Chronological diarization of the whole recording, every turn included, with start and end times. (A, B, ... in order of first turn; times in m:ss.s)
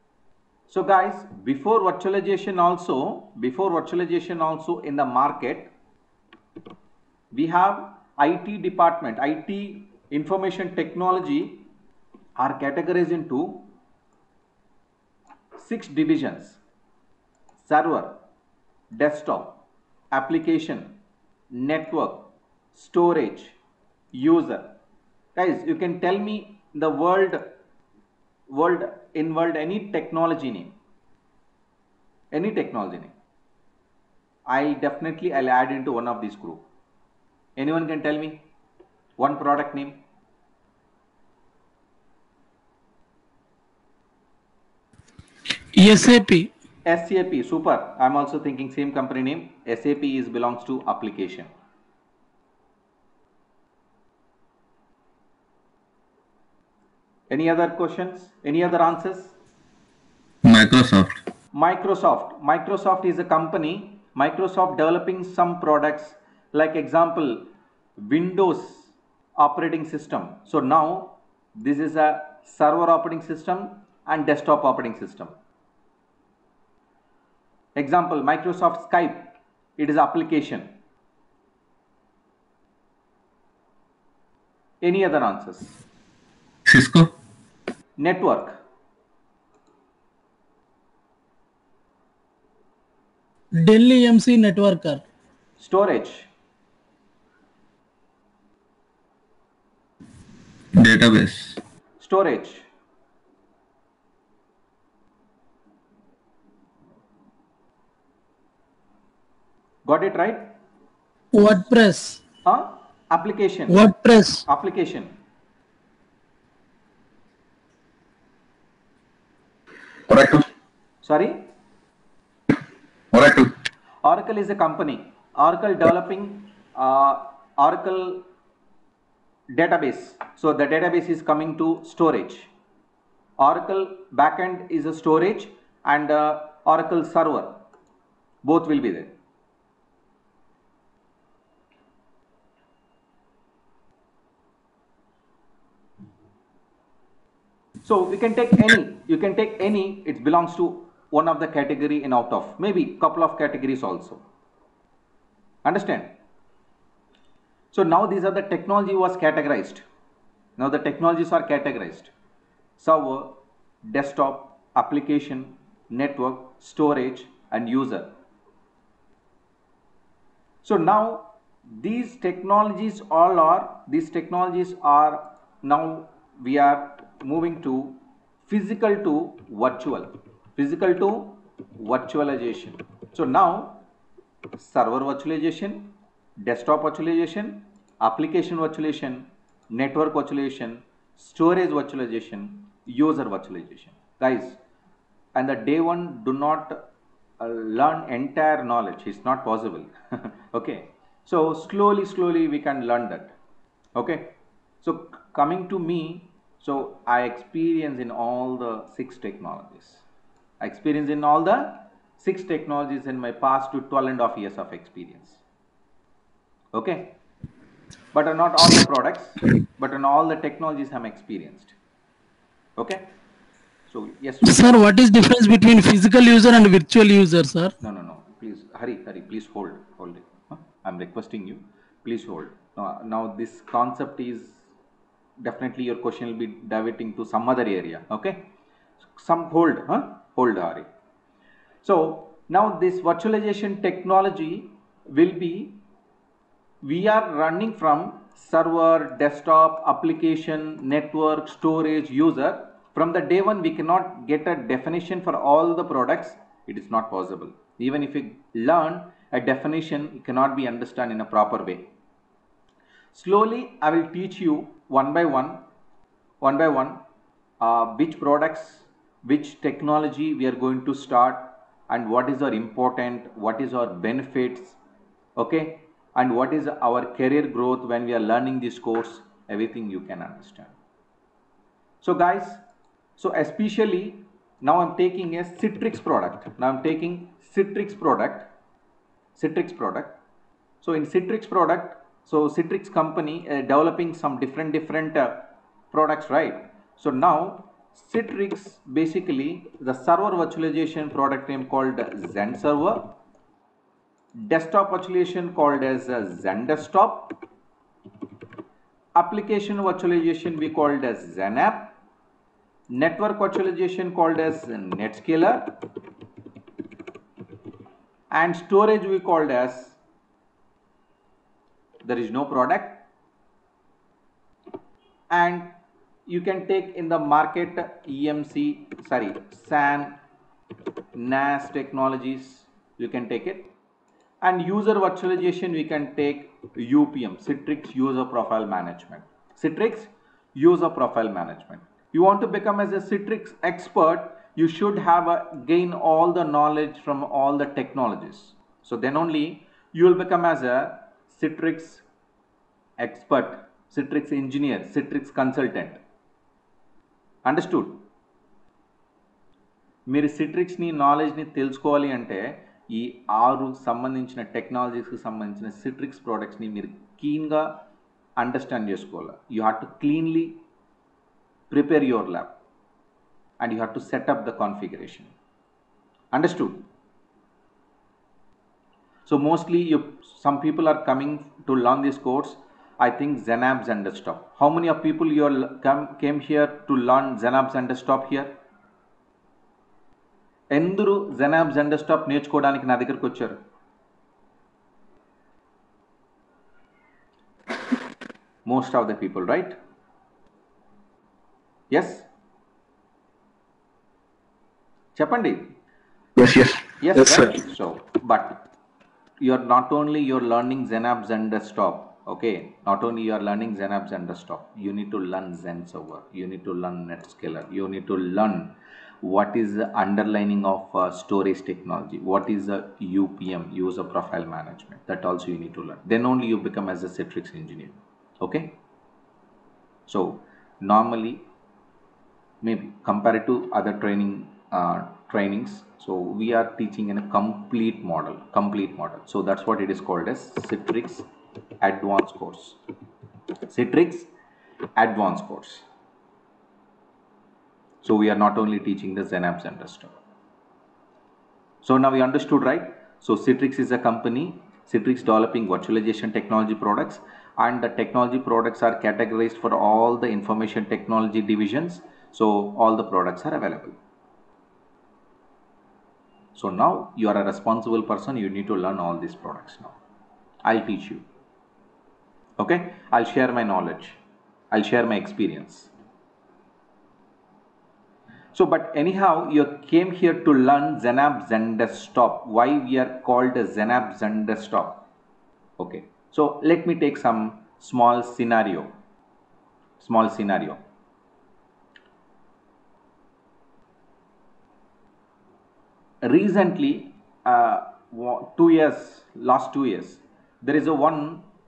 0:00.7-0:05.7 A
0:07.3-0:11.6 A
0:12.4-0:13.7 A
0:15.6-0:16.6 A
0:17.6-0:18.2 A
0:18.9-0:19.6 A
0:20.1-0:21.0 A
0:21.5-0:23.6 A
0:24.1-0:24.8 A
0:25.4-0:27.5 A
0:28.5-0:30.8 A
0:32.3-0:33.1 A
0:34.5-0:36.6 A
0:37.6-0:38.4 A
0:39.2-0:40.0 A
0:45.7-0:46.5 B
0:46.8-0:51.5 A
0:57.3-0:59.4 A
1:00.4-1:01.2 C
1:01.5-1:15.3 A
1:17.8-1:20.7 A
1:24.8-1:25.8 A
1:26.7-1:27.1 C
1:28.0-1:28.6 A
1:33.5-1:35.0 B
1:35.6-1:36.3 A
1:40.7-1:41.6 C
1:42.0-1:42.7 A
1:49.8-1:50.6 A
1:51.3-1:52.2 B
1:52.4-1:53.9 A
1:53.7-1:54.4 B
1:54.4-1:55.1 A
2:00.1-2:00.4 C
2:01.0-2:01.4 A
2:03.1-2:03.5 C
2:04.0-2:08.2 A
2:09.5-2:12.5 A
2:13.4-2:17.6 A
2:18.4-2:19.1 A
2:27.8-2:34.2 A
2:35.6-2:36.2 A
2:37.7-2:39.8 A
2:40.6-2:42.1 A
2:42.8-2:48.1 A
2:50.6-3:03.8 A
3:04.6-3:05.9 A
3:06.4-3:14.6 A
3:15.3-3:16.8 A
3:17.4-3:23.3 A
3:24.0-3:30.0 A
3:30.6-3:35.4 A
3:36.7-3:37.2 A
3:38.1-3:41.7 A
3:42.8-3:43.1 A
3:43.9-3:44.8 A
3:44.4-3:47.7 B
3:47.8-3:54.6 A
3:55.4-3:58.4 A
3:59.2-4:00.9 A
4:01.8-4:05.8 A
4:06.8-4:21.9 A
4:23.1-4:25.6 A
4:26.4-4:27.0 A
4:27.6-4:34.8 A
4:35.4-4:40.7 A
4:42.0-4:42.6 A
4:43.2-4:48.5 A
4:49.4-4:50.2 A
4:50.8-5:03.2 A
5:04.4-5:07.4 A
5:09.2-5:11.9 A
5:12.9-5:15.8 A
5:18.3-5:20.0 A
5:22.0-5:23.0 A
5:25.3-5:25.7 A
5:26.3-5:30.2 A
5:31.1-5:33.7 A
5:34.4-5:52.0 A
5:53.0-5:56.0 A
5:57.4-5:58.0 A
6:00.1-6:07.8 A
6:08.4-6:10.6 A
6:11.7-6:12.5 A
6:13.6-6:15.3 A
6:16.3-6:16.8 A
6:19.2-6:28.5 A
6:30.7-6:33.6 A
6:38.6-6:39.8 A
6:41.9-6:42.3 A
6:45.2-6:45.8 A
6:46.4-6:47.5 C
6:47.0-6:48.6 A
6:49.4-7:08.7 A
7:10.1-7:11.4 A
7:12.6-7:21.3 A
7:21.8-7:22.8 A
7:23.7-7:24.3 A
7:25.0-7:25.8 A
7:28.0-7:30.1 A
7:31.8-7:44.0 A
7:46.5-7:49.9 A
7:50.6-7:51.2 A
7:52.6-7:54.2 A
7:54.7-7:55.9 A
7:58.5-8:05.0 A
8:05.8-8:08.9 A
8:10.0-8:10.8 A
8:16.2-8:21.4 A